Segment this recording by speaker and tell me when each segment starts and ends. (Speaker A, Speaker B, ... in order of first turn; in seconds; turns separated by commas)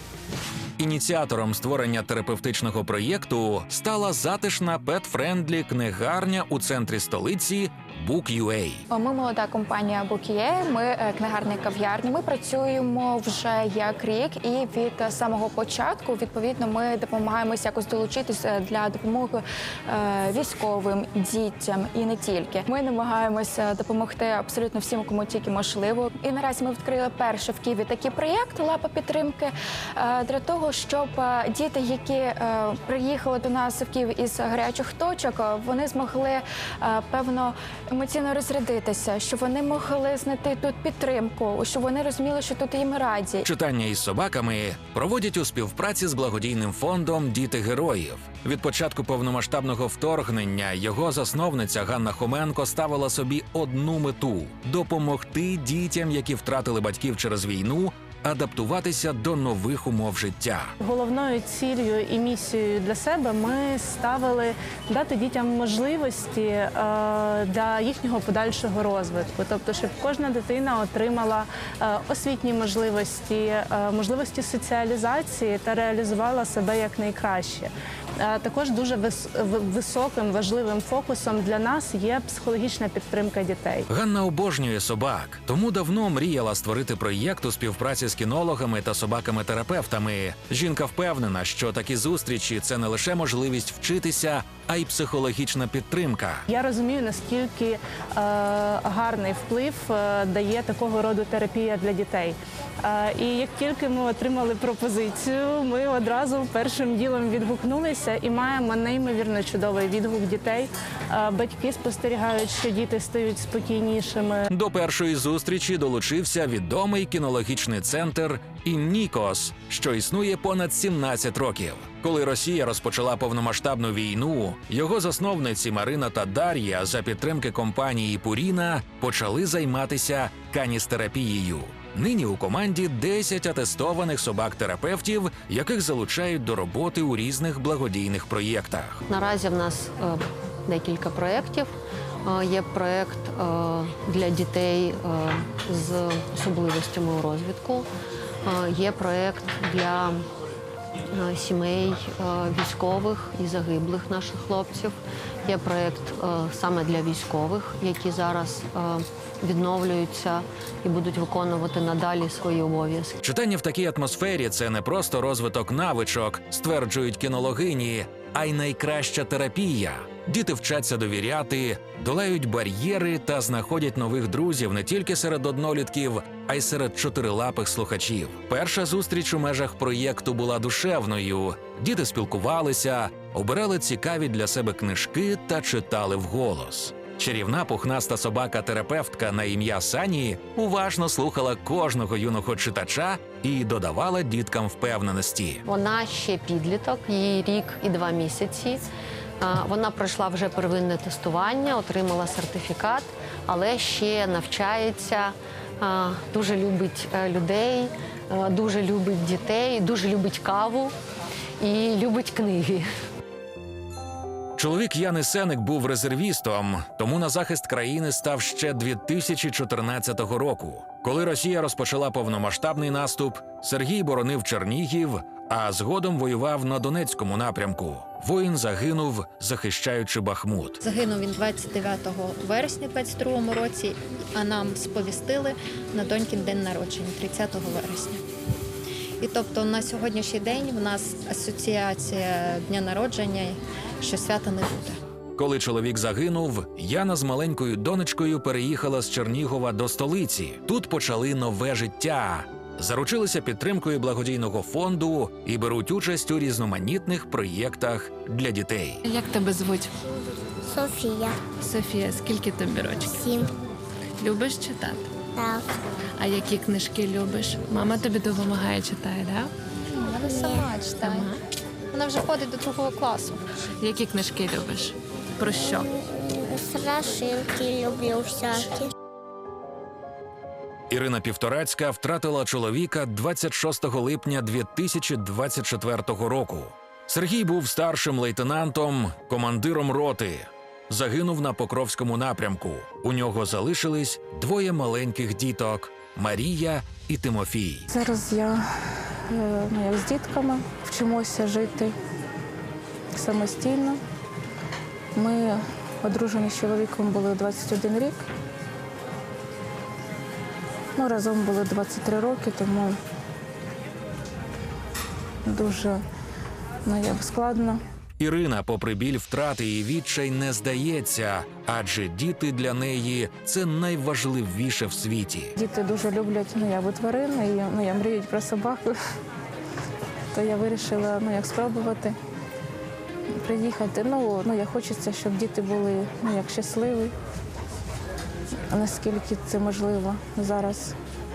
Speaker A: 0.8-8.8, Speaker B: 8.9-43.5, Speaker A: 43.4-60.7, Speaker C: 60.8-77.7, Speaker C: 78.2-83.9, Speaker A: 83.9-96.4, Speaker C: 96.5-114.5, Speaker A: 114.5-139.0, Speaker D: 139.1-141.7, Speaker D: 142.2-147.9, Speaker D: 148.4-150.2, Speaker D: 151.1-163.1, Speaker A: 163.2-195.6, Speaker D: 195.7-198.8, Speaker D: 199.4-210.9, Speaker D: 211.6-212.9, Speaker A: 214.6-230.8, Speaker E: 230.8-238.2, Speaker E: 239.2-245.0, Speaker A: 245.3-259.0, Speaker F: 259.3-259.7, Speaker G: 260.7-261.4, Speaker G: 263.2-263.5, Speaker F: 264.2-264.8, Speaker G: 265.3-265.7, Speaker F: 266.6-269.3, Speaker E: 269.9-271.3, Speaker G: 270.4-270.7, Speaker E: 271.9-273.4, Speaker F: 273.8-274.8, Speaker F: 275.4-275.8, Speaker G: 276.3-278.9, Speaker A: 280.9-297.9, Speaker H: 297.9-298.6, Speaker H: 299.3-301.9, Speaker H: 303.1-304.0, Speaker H: 305.1-308.2, Speaker H: 310.9-313.0, Speaker H: 315.4-316.0, Speaker H: 316.9-317.8, Speaker A: 318.2-325.5, Speaker H: 325.6-328.9, Speaker H: 330.3-332.1, Speaker H: 333.4-337.1, Speaker H: 338.7-340.9